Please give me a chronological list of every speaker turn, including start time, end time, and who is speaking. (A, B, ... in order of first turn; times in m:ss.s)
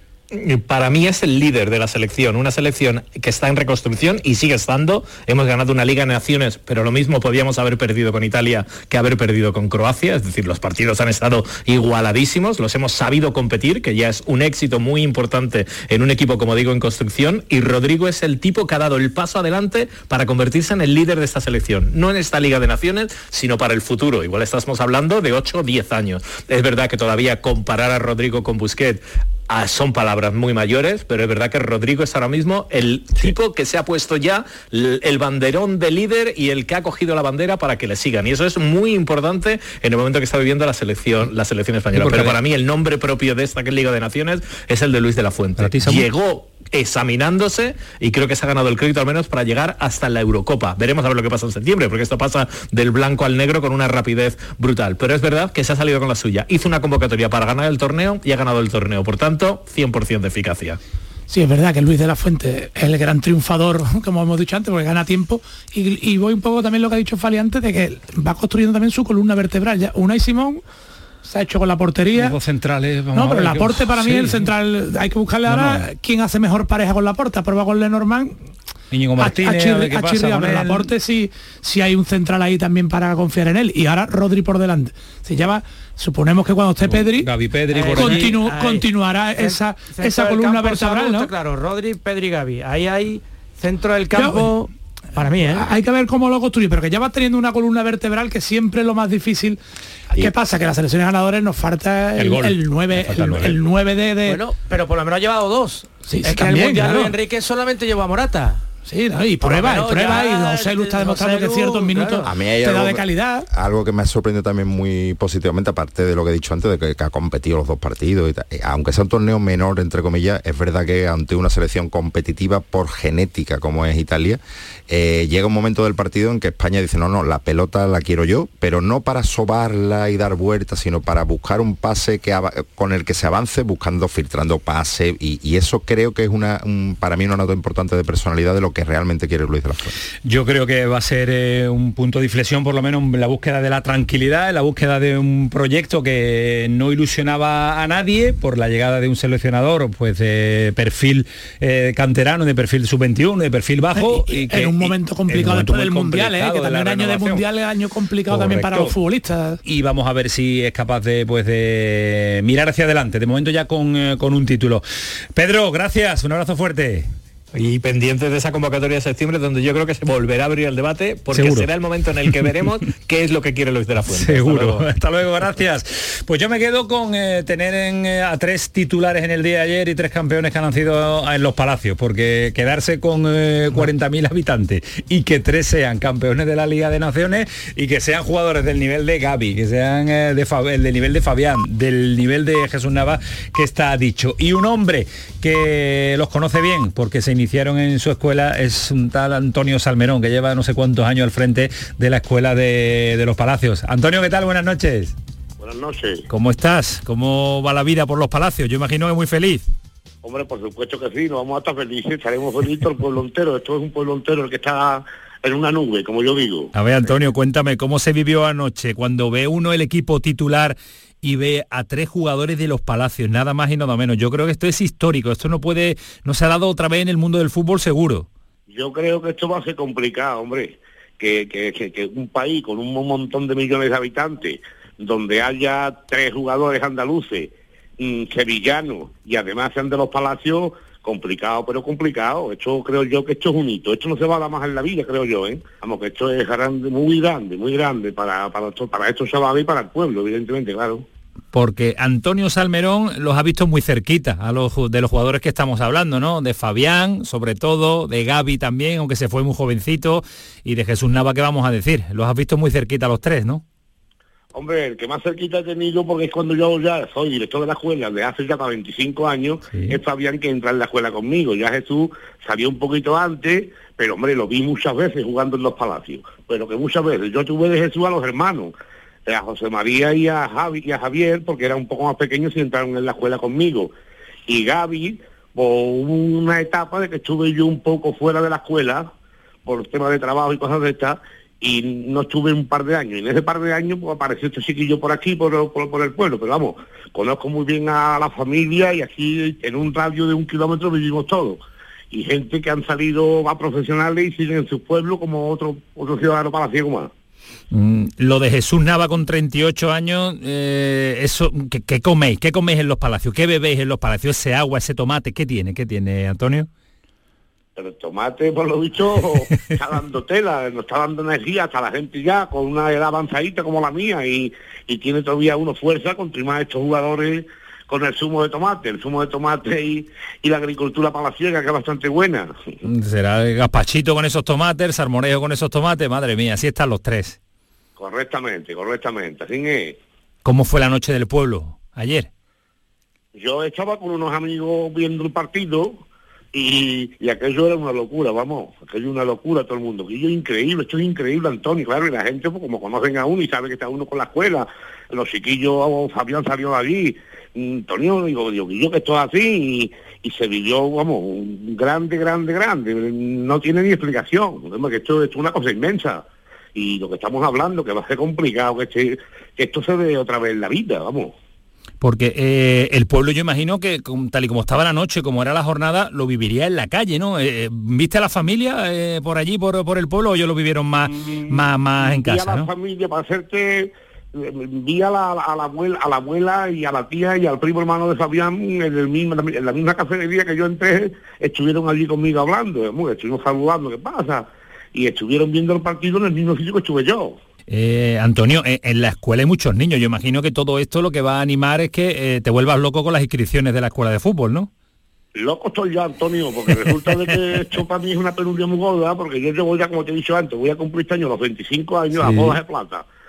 0:00.3-1:00.8 A
0:41.9-0:42.4 B
0:45.6-0:46.1 B
1:01.3-1:10.6 C
1:11.2-1:12.4 C
1:12.1-1:14.5 B
1:13.1-1:18.4 C
1:15.5-1:15.8 B
1:18.9-1:20.9 B
1:19.2-1:27.3 C
1:26.8-1:28.3 B
1:27.7-1:35.7 D
1:27.9-1:31.3 C
1:34.1-1:34.5 C
1:35.4-1:39.6 C
1:40.1-1:44.4 C
1:42.2-1:43.6 B
1:44.2-1:48.6 D
1:46.1-1:47.1 C
1:48.9-1:53.5 C
1:49.4-1:52.3 D
1:52.2-2:20.0 E
2:20.2-2:37.4 B
2:33.9-2:39.6 C
2:38.3-2:39.0 B
2:39.6-2:47.1 B
2:47.5-2:54.9 A
2:51.3-2:51.7 B
2:54.1-3:25.1 B
3:25.6-3:26.3 F
3:26.3-3:29.6 B
3:30.2-3:37.1 F
3:36.7-3:48.3 B
3:48.7-4:11.0 F
4:11.5-4:23.6 B
4:24.5-4:38.7 F
4:29.7-4:30.0 B
4:39.2-4:43.9 F
4:44.5-4:49.1 F
4:49.6-5:01.6 F
5:02.1-5:07.1 F
5:07.7-5:16.7 B
5:17.8-5:32.5 F
5:32.8-5:37.4 B
5:38.0-5:40.0 F
5:40.4-5:42.3 B
5:43.4-5:46.0 F
5:46.5-6:11.3 F
6:12.0-6:22.7 B
6:21.2-6:37.4 F
6:37.7-6:44.7 B
6:45.4-6:53.1 F
6:46.7-6:47.6 B
6:52.2-6:52.6 B